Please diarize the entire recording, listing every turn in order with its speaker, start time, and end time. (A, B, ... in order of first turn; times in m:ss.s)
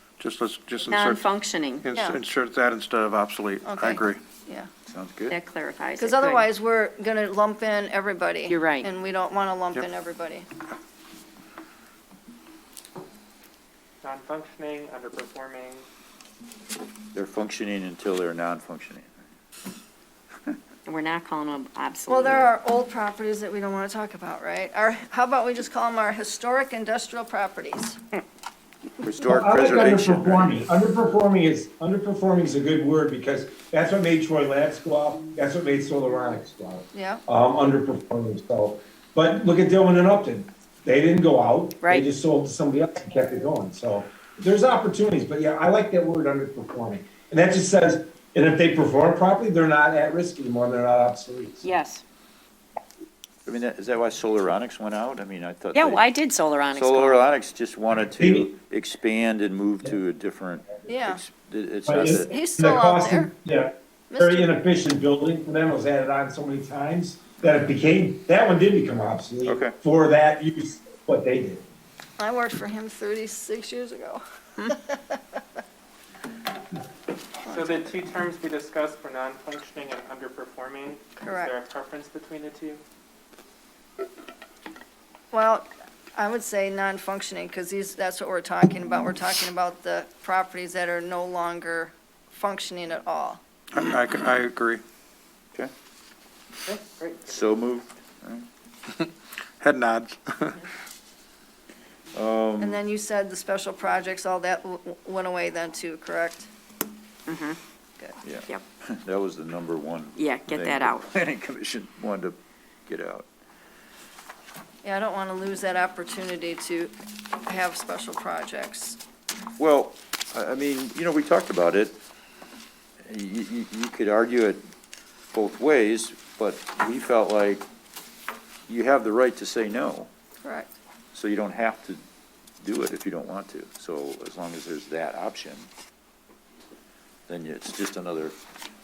0:00.2-0:01.2 A
0:00.8-0:01.9 B
0:01.8-0:04.2 A
0:01.9-0:02.2 C
0:03.6-0:04.7 C
0:04.9-0:05.4 D
0:05.3-0:06.4 B
0:06.0-0:10.5 C
0:08.5-0:08.9 B
0:14.0-0:15.8 E
0:17.1-0:19.1 D
0:20.8-0:22.5 B
0:22.1-0:28.0 C
0:29.0-0:30.6 D
0:29.3-0:51.7 F
0:36.9-0:37.2 C
0:51.6-0:52.0 B
0:53.5-0:56.0 D
0:55.7-0:57.3 B
0:56.7-1:02.3 D
0:58.2-0:58.5 F
1:00.9-1:01.2 C
1:01.9-1:11.6 F
1:02.2-1:03.3 C
1:04.1-1:04.6 C
1:09.5-1:09.8 D
1:12.2-1:15.4 C
1:17.4-1:22.8 E
1:17.5-1:18.1 C
1:21.2-1:21.5 C
1:25.3-1:33.4 C
1:33.7-1:34.8 A
1:36.7-1:37.5 E
1:37.3-1:38.5 D
1:39.6-1:40.6 A
1:42.1-1:42.8 D
1:42.6-1:46.5 C
1:47.3-1:47.6 B
1:48.2-1:53.3 D
1:50.2-1:51.1 B
1:54.8-1:59.0 C
1:59.6-2:02.0 D
2:03.1-2:04.6 D
2:05.3-2:07.7 D
2:08.7-2:10.1 D
2:10.4-2:10.8 C
2:11.1-2:12.0 D
2:12.6-2:15.7 D
2:17.3-2:18.4 D